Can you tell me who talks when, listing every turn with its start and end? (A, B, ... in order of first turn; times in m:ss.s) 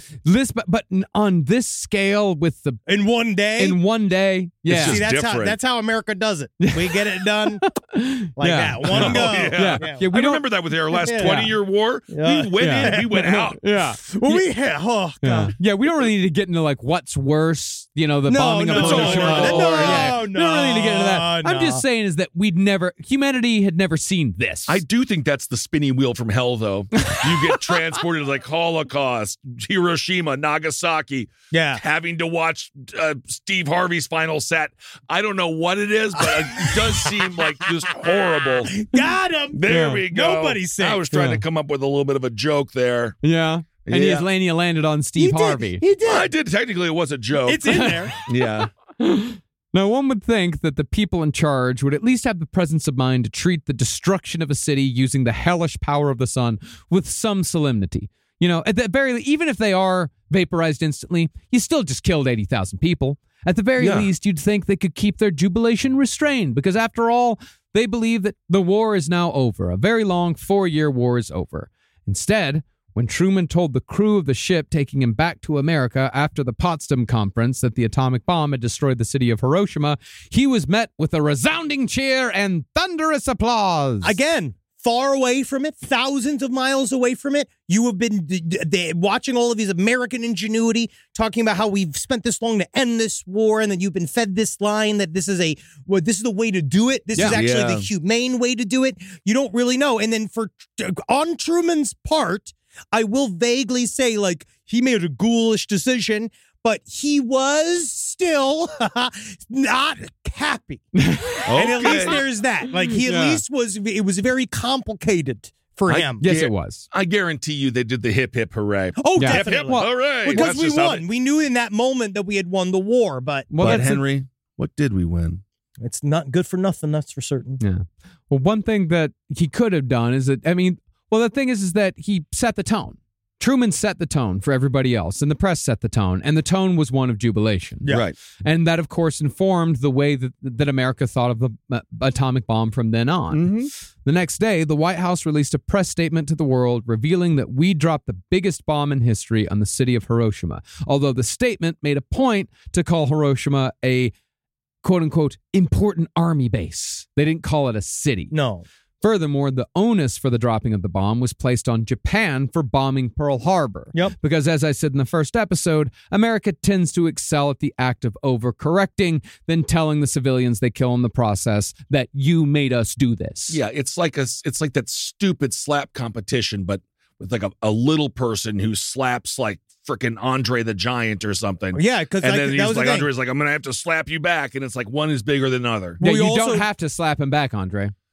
0:00.2-0:02.8 A
0:02.8-0:03.8 B
0:03.6-0:05.0 A
0:04.7-0:05.6 C
0:04.7-0:07.6 B
0:06.6-0:10.4 A
0:08.4-0:10.0 B
0:08.9-0:13.6 C
0:11.0-0:11.5 B
0:11.0-0:11.5 A
0:12.1-0:15.5 B
0:12.6-0:14.5 A
0:15.2-0:24.8 A
0:18.3-0:21.8 B
0:18.7-0:20.2 C
0:24.7-0:38.8 C
0:27.0-0:27.7 A
0:31.5-0:31.8 B
0:36.2-0:41.0 B
0:39.5-0:43.2 C
0:39.7-0:40.0 A
0:41.1-0:41.4 A
0:43.2-0:45.8 A
0:43.9-0:44.2 C
0:45.2-0:46.3 B
0:46.0-0:48.7 C
0:47.4-0:48.1 B
0:47.7-0:48.1 A
0:49.0-1:24.2 A
1:03.8-1:04.1 C
1:24.0-1:56.2 B
1:37.2-1:37.8 C
1:50.9-1:52.2 A
1:51.4-1:52.2 C
1:52.9-1:53.4 A
1:55.9-1:56.8 A
1:55.9-2:01.0 C
1:59.0-2:03.8 B
1:59.1-2:00.5 A
2:03.5-2:04.0 A
2:03.6-2:05.4 C
2:05.8-2:07.6 B
2:07.6-2:23.5 A
2:17.9-2:18.2 C
2:23.3-2:23.7 C
2:24.0-2:34.1 A
2:34.8-2:38.3 A
2:38.3-2:38.6 B
2:39.0-2:53.6 A
2:53.5-3:06.0 C
3:01.7-3:03.1 B
3:06.0-3:06.7 B
3:06.0-3:07.9 A